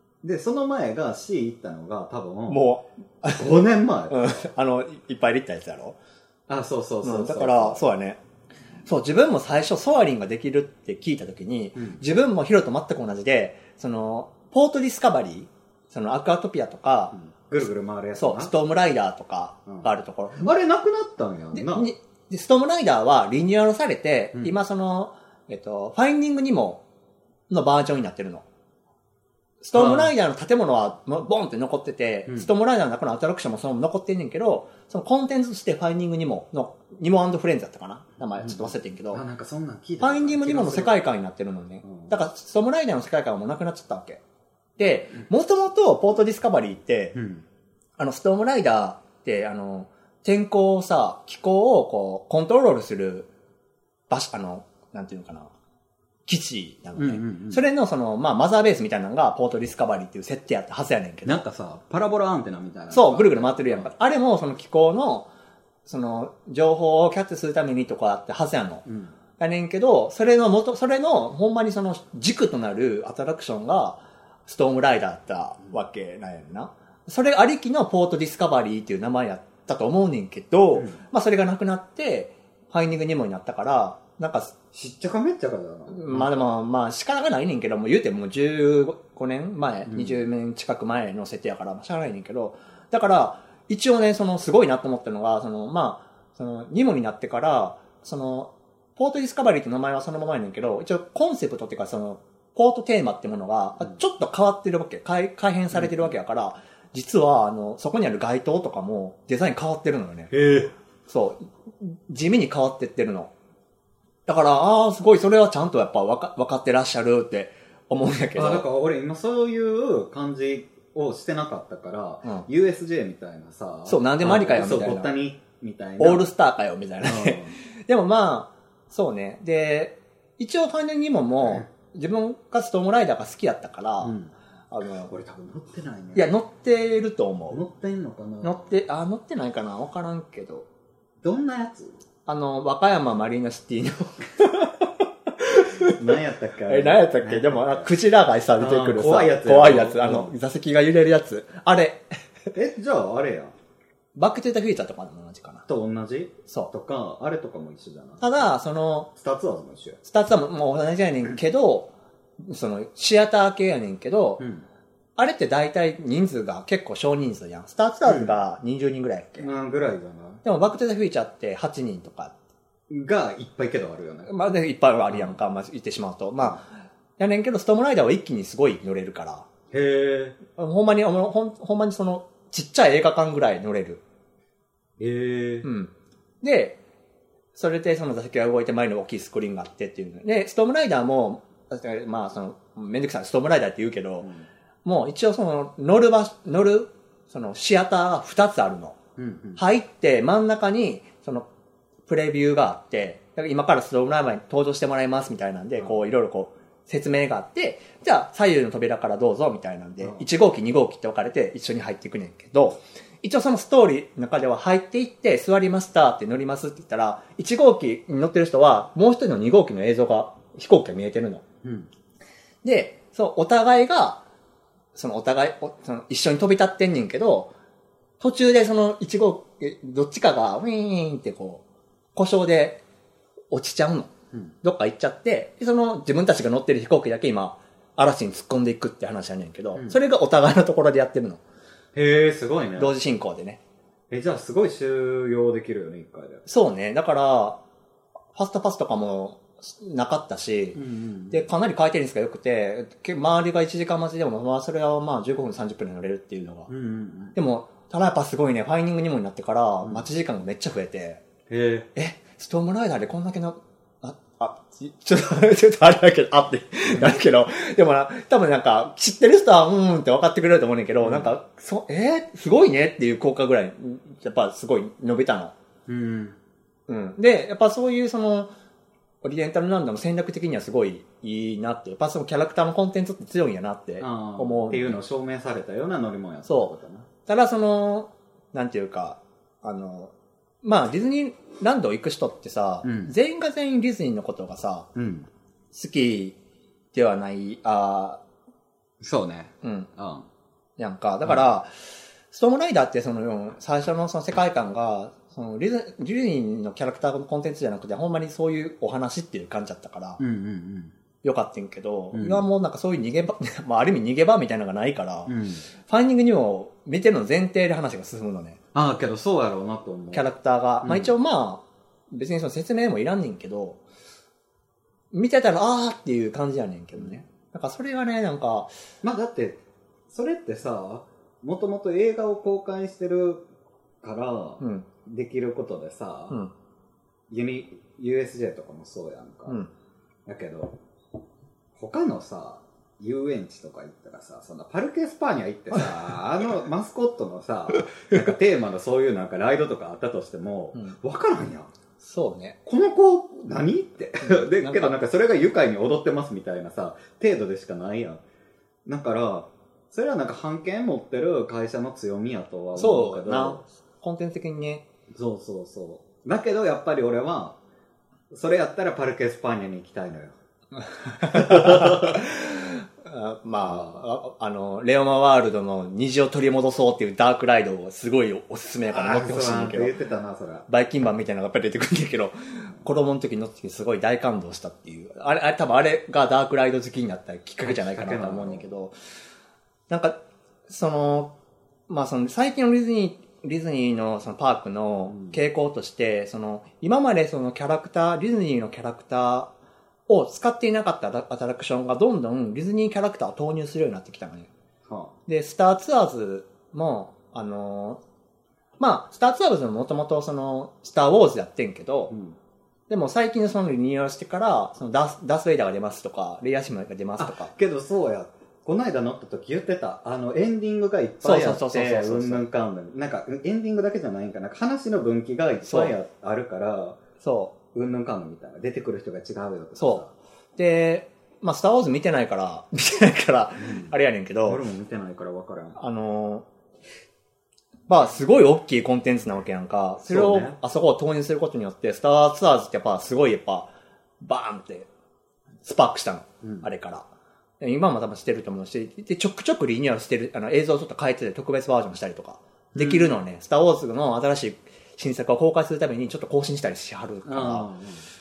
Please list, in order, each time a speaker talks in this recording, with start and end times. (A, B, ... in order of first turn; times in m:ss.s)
0:00.2-0:02.6 A
0:02.5-0:06.0 B
0:03.3-0:04.5 A
0:06.5-0:07.8 A
0:07.0-0:08.2 B
0:08.8-0:17.2 B
0:17.1-0:18.5 A
0:18.2-0:20.4 B
0:19.7-0:21.9 A
0:21.5-0:26.8 B
0:27.5-0:28.4 B
0:29.6-0:39.2 B
0:29.7-0:30.1 A
0:38.4-0:41.0 A
0:40.0-0:44.2 B
0:41.8-0:42.1 A
0:44.8-0:47.2 B
0:47.1-0:47.4 A
0:48.0-0:53.3 B
0:54.1-0:55.5 B
0:56.2-1:01.4 B
0:57.0-0:57.6 A
1:01.2-1:03.9 A
1:02.9-1:05.3 B
1:05.8-1:08.8 B
1:08.8-1:09.1 A
1:09.4-1:24.5 B
1:24.7-1:26.4 A
1:25.9-1:50.3 B
1:29.9-1:30.2 A
1:45.7-1:46.1 A
1:50.3-1:50.7 A
1:51.1-1:53.3 B
1:54.2-1:58.6 B
1:58.3-2:06.3 A
2:03.9-2:05.1 B
2:06.0-2:14.2 B
2:07.0-2:07.6 A
2:14.0-2:14.3 A
2:14.7-2:15.1 B
2:15.0-2:16.3 A
2:16.1-2:17.6 B
2:17.5-2:18.7 A
2:18.4-2:20.7 B
2:21.2-2:22.0 A
2:22.2-2:26.0 B
2:25.8-2:27.9 A
2:26.7-2:32.0 B
2:28.6-2:30.3 A
2:32.5-2:33.5 A
2:34.2-2:35.6 B
2:35.7-2:38.4 A
2:38.2-2:39.1 B
2:39.1-2:40.0 A
2:40.0-2:44.4 B
2:44.4-2:44.6 A
2:45.2-2:49.5 B
2:48.0-2:48.4 A
2:49.4-2:50.4 A
2:50.4-2:52.3 B
2:52.9-2:54.3 A
2:54.3-2:56.6 B
2:55.1-2:55.4 A
2:57.2-2:59.5 B
2:59.7-3:00.4 A
3:00.5-3:04.0 B
3:05.0-3:05.7 A
3:05.6-3:06.8 B
3:07.5-3:14.3 B
3:14.8-3:19.0 B
3:19.2-3:19.6 A
3:19.6-3:21.5 B
3:22.0-3:41.4 B
3:41.6-3:41.9 A
3:42.6-3:44.2 B
3:44.9-3:47.5 B
3:48.2-3:51.6 B
3:52.1-3:52.8 B
3:53.5-3:54.1 B
3:54.6-4:01.4 B
4:01.9-4:02.9 A
4:02.8-4:03.6 B
4:04.1-4:06.5 A
4:06.5-4:07.6 B
4:08.3-4:10.8 B
4:10.7-4:11.5 A
4:11.3-4:16.7 B
4:16.7-4:17.4 A
4:17.3-4:21.2 B
4:21.5-4:21.9 A
4:21.9-4:35.5 B
4:26.9-4:27.1 A
4:31.0-4:31.3 A
4:35.9-4:36.4 A
4:36.9-4:38.5 B
4:39.2-4:45.0 B
4:44.0-4:47.1 A
4:46.4-4:46.7 B
4:47.2-4:54.9 B
4:52.8-4:53.1 A
4:54.9-4:55.3 A
4:55.7-4:56.4 B
4:56.9-4:58.2 B
4:59.0-5:00.3 A
4:59.6-4:59.9 B
5:00.8-5:01.7 B
5:02.3-5:10.2 B
5:10.2-5:10.9 A
5:11.2-5:15.3 B
5:12.1-5:12.4 A
5:15.3-5:15.6 A
5:15.8-5:18.6 B
5:18.7-5:20.2 A
5:20.1-5:23.8 B
5:20.8-5:21.1 A
5:25.1-5:28.7 B
5:29.0-5:33.4 A
5:34.0-5:36.4 A
5:34.6-5:34.9 B
5:37.3-5:39.6 A
5:40.2-5:40.8 A
5:41.7-5:51.7 A
5:52.0-5:52.6 B
5:52.6-5:58.2 A
5:54.2-5:55.0 B
5:58.8-6:03.6 A
6:02.8-6:04.8 B
6:05.1-6:07.6 A
6:08.3-6:10.4 A
6:11.0-6:19.9 B
6:11.2-6:12.2 A
6:13.6-6:14.0 A
6:18.9-6:20.6 A
6:20.7-6:28.9 B
6:27.6-6:28.7 A
6:29.9-6:31.3 B
6:31.9-6:39.5 B
6:35.1-6:35.4 A
6:40.1-6:44.5 B
6:44.8-6:45.1 A
6:45.3-6:48.0 B
6:48.8-6:52.1 B
6:52.1-6:52.4 A
6:52.9-6:57.5 B
6:57.2-7:07.0 A
7:01.2-7:02.4 B
7:05.6-7:05.9 B
7:07.2-7:07.5 B
7:07.7-7:10.1 A
7:09.8-7:10.0 B
7:10.6-7:14.6 B
7:13.6-7:13.9 A
7:14.4-7:15.8 A
7:15.8-7:16.4 B
7:17.9-7:24.9 B
7:20.0-7:20.6 A
7:25.6-7:27.0 B
7:26.4-7:26.7 A
7:27.6-7:37.7 B
7:32.7-7:33.2 A
7:37.2-7:38.0 A